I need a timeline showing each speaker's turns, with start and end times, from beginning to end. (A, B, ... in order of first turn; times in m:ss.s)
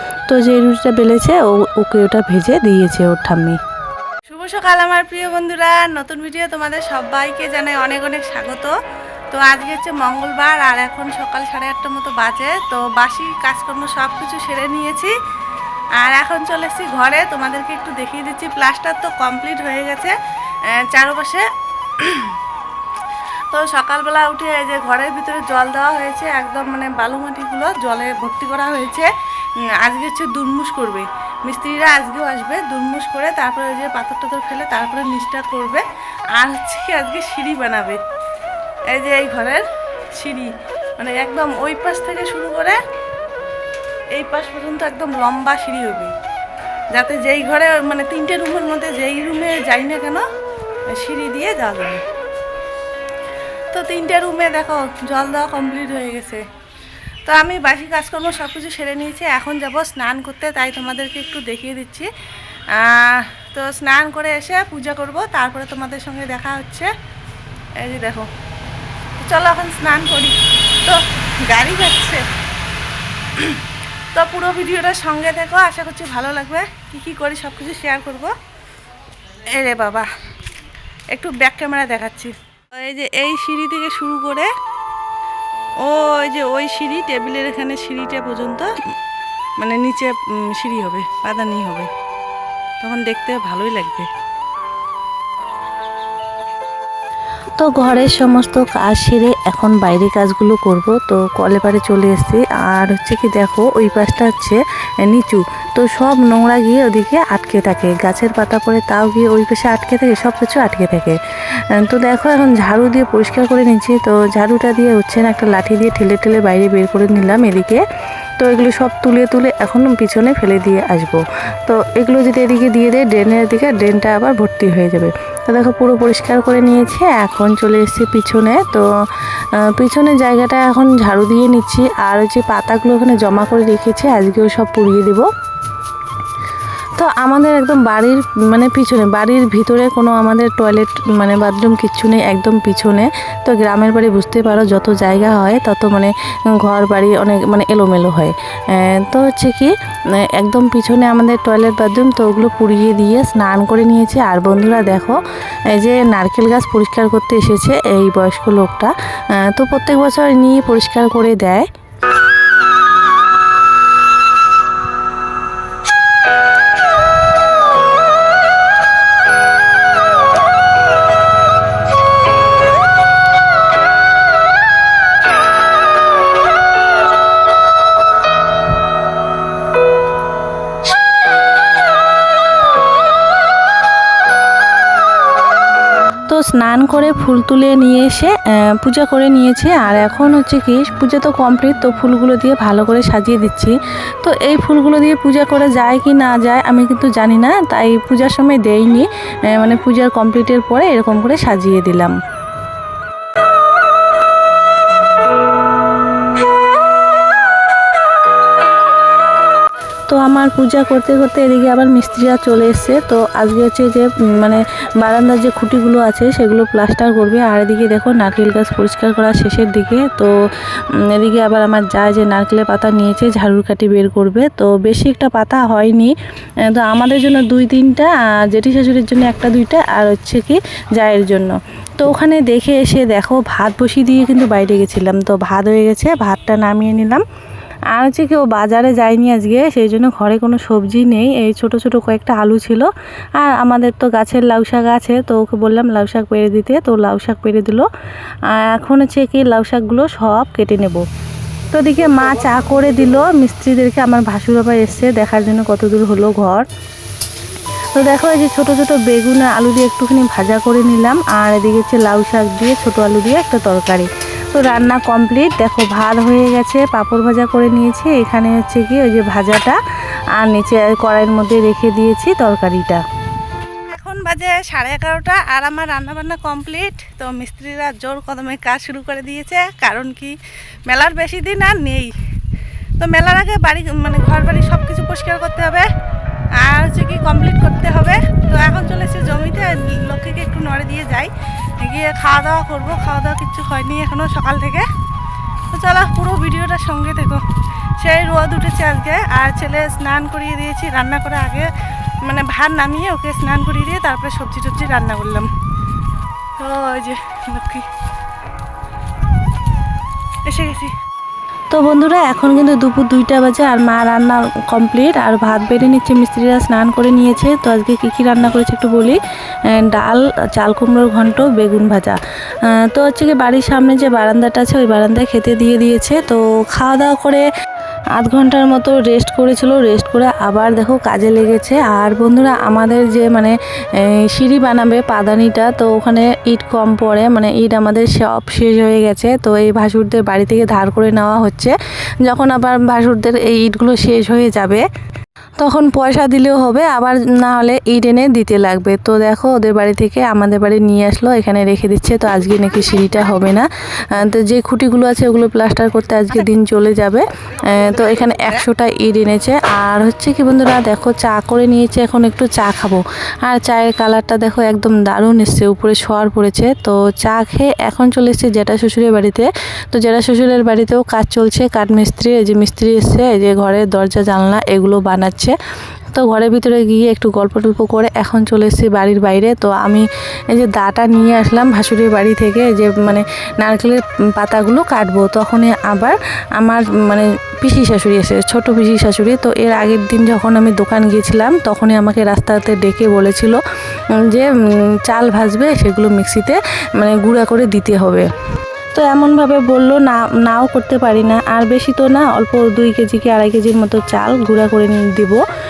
0:00.3-0:03.6 A
0:04.3-0:08.7 B
0:09.3-0:15.1 B
0:16.0-0:20.1 B
0:20.7-0:21.5 B
0:22.0-0:22.3 B
0:23.5-0:29.1 B
0:29.8-0:30.4 B
0:30.4-0:31.0 A
0:31.5-0:32.4 B
0:31.9-0:35.7 A
0:33.2-0:34.0 B
0:35.0-0:35.8 B
0:36.4-0:38.0 B
0:36.6-0:37.7 A
0:38.9-0:39.6 B
0:40.2-0:40.5 B
0:41.0-0:41.5 A
0:41.5-0:42.8 B
0:42.1-0:42.7 A
0:44.2-0:46.1 B
0:45.8-0:46.1 A
0:46.9-0:50.2 B
0:51.0-0:52.0 B
0:53.7-0:56.4 B
0:57.3-1:02.1 B
1:02.8-1:06.9 B
1:07.8-1:08.3 B
1:09.2-1:12.2 B
1:14.1-1:18.3 B
1:19.5-1:20.1 B
1:21.1-1:24.5 B
1:25.8-1:28.7 B
1:29.6-1:31.9 B
1:32.8-1:34.1 B
1:37.6-1:51.2 A
1:51.7-1:57.8 A
1:58.4-2:08.9 A
2:09.4-2:15.3 A
2:17.0-2:35.2 A
2:35.7-2:41.7 A
3:06.3-3:22.1 A
3:30.1-3:40.3 A
3:41.1-3:46.1 A
3:46.7-3:57.2 A
3:57.9-4:07.9 A
4:08.5-4:11.0 A
4:11.7-4:16.6 A
4:17.9-4:29.8 A
4:30.3-4:33.0 A
4:33.9-4:40.4 B
4:40.9-4:42.1 B
4:43.0-4:45.9 B
4:46.6-4:54.9 B
4:55.7-4:57.4 B
4:58.0-5:01.7 B
5:02.2-5:05.5 B
5:06.6-5:07.8 B
5:10.5-5:10.9 B
5:11.7-5:22.2 A
5:22.7-5:27.5 A
5:28.1-5:44.8 A
5:45.6-6:15.6 A
6:16.1-6:33.6 A
6:34.2-6:38.3 A
6:38.9-6:45.4 A